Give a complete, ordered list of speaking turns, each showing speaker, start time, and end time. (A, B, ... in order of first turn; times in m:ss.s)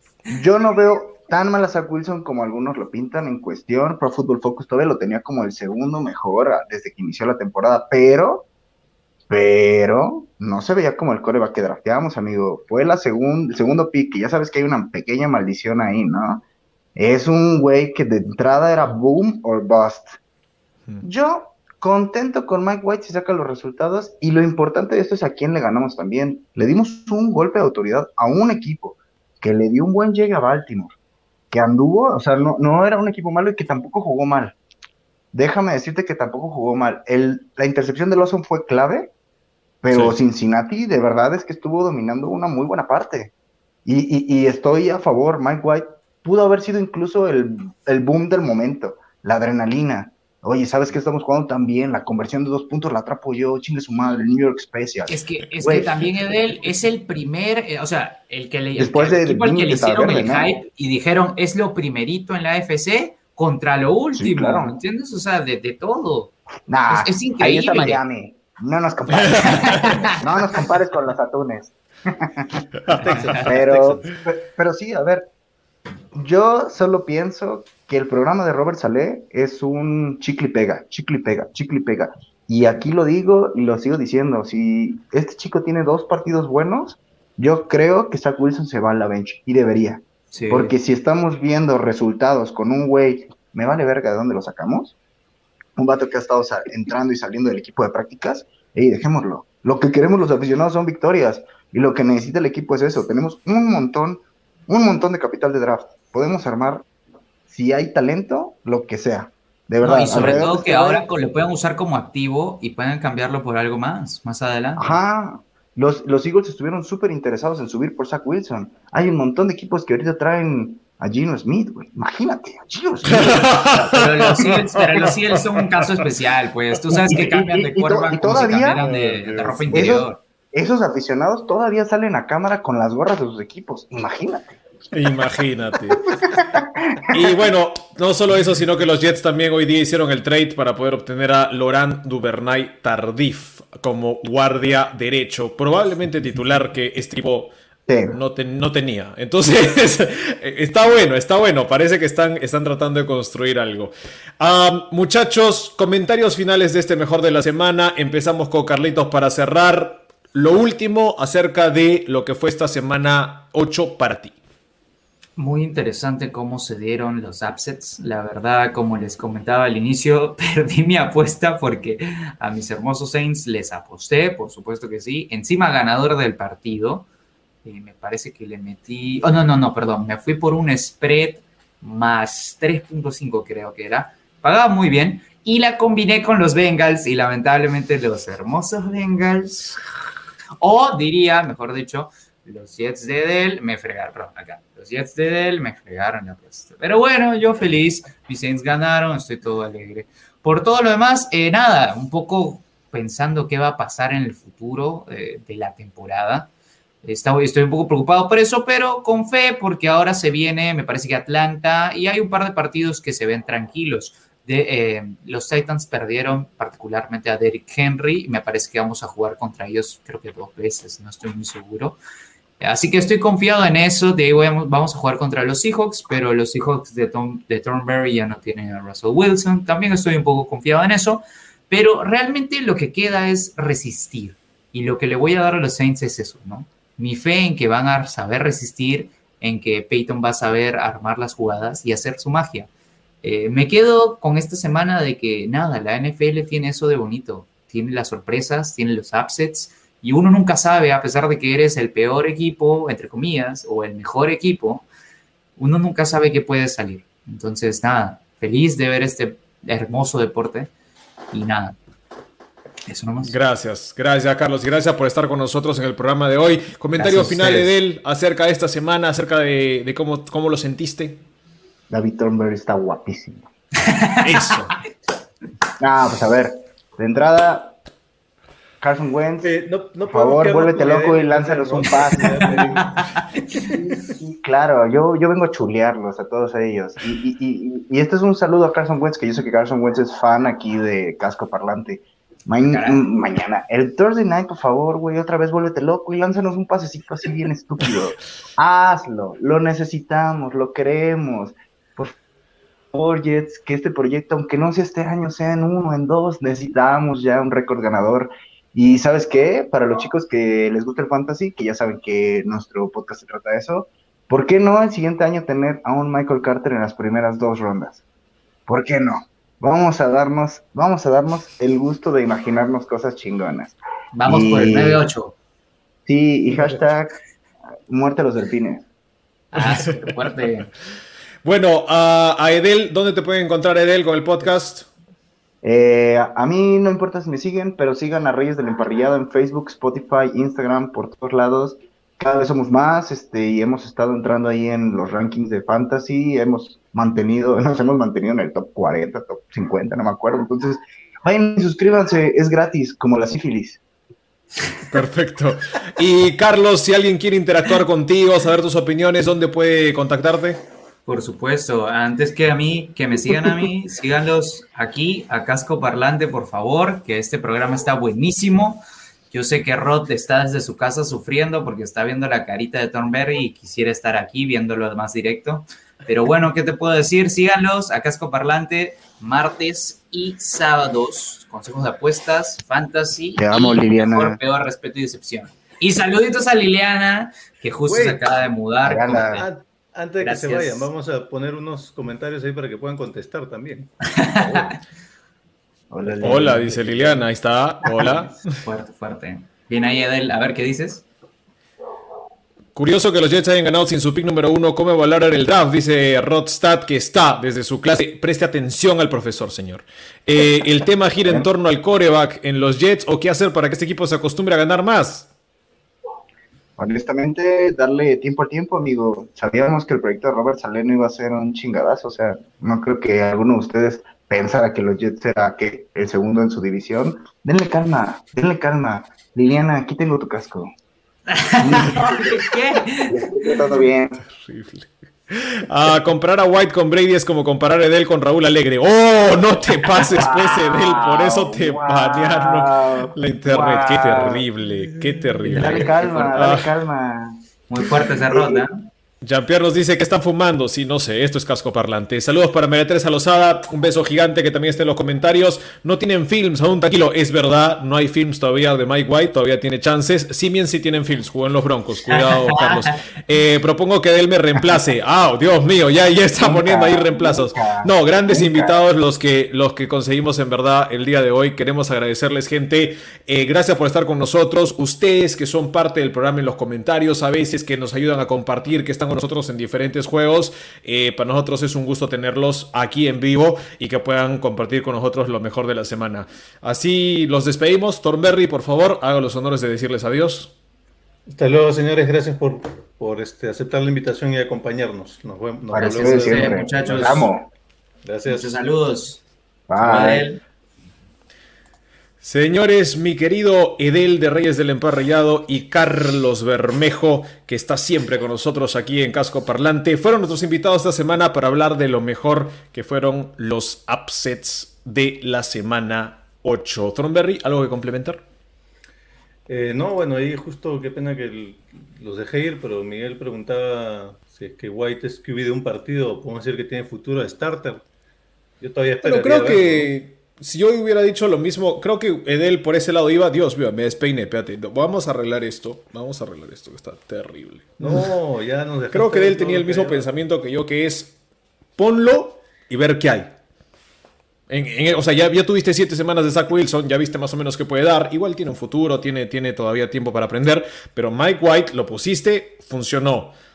0:00.3-0:08.4 A
0:09.3-0:16.4 A
0:17.0-0:20.2 A
0:21.0-0:30.9 A
0:31.5-0:34.6 A
0:35.3-0:39.1 A
0:39.8-0:43.3 A
0:43.8-0:55.9 A
0:55.1-1:06.3 B
0:58.8-1:00.5 A
1:04.1-1:04.8 A
1:06.7-1:15.3 A
1:06.9-1:08.0 B
1:09.1-1:10.0 C
1:09.4-1:10.2 B
1:12.9-1:14.1 D
1:16.1-1:34.9 A
1:30.3-1:30.7 B
1:35.8-1:46.8 A
1:47.5-1:51.0 A
1:49.8-1:55.0 B
1:54.8-2:03.6 A
2:03.1-2:04.5 C
2:03.1-2:10.2 B
2:06.9-2:08.8 A
2:08.9-2:09.5 D
2:09.7-2:14.6 A
2:14.9-2:16.4 C
2:16.4-2:17.3 A
2:17.1-2:27.5 C
2:27.9-2:28.2 A
2:28.1-2:44.4 C
2:45.4-2:57.1 B
2:57.6-3:09.6 B
3:10.6-3:26.5 B
3:27.0-3:42.0 B
3:42.6-4:02.7 B
4:03.2-4:14.9 B
4:15.6-4:20.7 B
4:21.3-4:21.8 B
4:22.8-4:23.3 B
4:23.2-4:31.2 C
4:27.0-4:27.7 B
4:31.9-4:33.4 A
4:33.8-4:34.3 B
4:34.2-4:34.8 C
4:35.8-4:37.8 A
4:38.8-4:39.5 A
4:39.4-4:44.1 D
4:40.1-4:42.8 A
4:43.6-5:02.1 A
4:52.7-4:53.0 B
5:02.9-5:18.0 A
5:18.7-5:23.7 A
5:24.1-5:25.4 B
5:24.2-5:25.0 A
5:26.1-5:27.2 A
5:27.9-5:28.8 A
5:29.5-5:30.7 B
5:31.4-5:34.9 C
5:35.6-5:53.8 A
5:54.9-6:00.6 C
6:01.0-6:29.5 B
6:23.4-6:24.4 A
6:27.8-6:28.2 D
6:28.8-6:29.4 A
6:29.3-6:33.9 D
6:30.2-6:30.9 B
6:34.1-6:34.6 B
6:35.9-6:37.0 A
6:36.0-6:37.2 D
6:36.2-6:38.4 C
6:37.8-6:38.2 A
6:38.6-6:41.0 B
6:42.7-6:55.3 C
6:56.8-7:10.7 A
7:11.3-7:13.6 B
7:11.6-7:12.4 A
7:13.0-7:14.2 A
7:14.2-7:26.7 C
7:20.0-7:24.4 A
7:25.4-7:27.4 A
7:25.5-7:26.3 B
7:27.7-7:28.8 B
7:28.3-7:28.6 A
7:29.2-8:10.5 C
7:42.1-7:42.9 B
7:46.4-7:48.8 A
8:11.3-8:17.3 D
8:15.7-8:17.5 A
8:15.7-8:17.3 B
8:18.0-8:18.5 D
8:18.2-8:19.2 B
8:19.7-8:20.3 A
8:19.8-8:20.4 B
8:22.2-8:38.2 C
8:39.5-8:47.8 D
8:48.6-8:49.9 D
8:49.0-8:58.1 C
8:57.8-9:00.1 D
8:58.9-9:01.1 C
9:01.8-9:03.3 C
9:04.5-9:13.3 C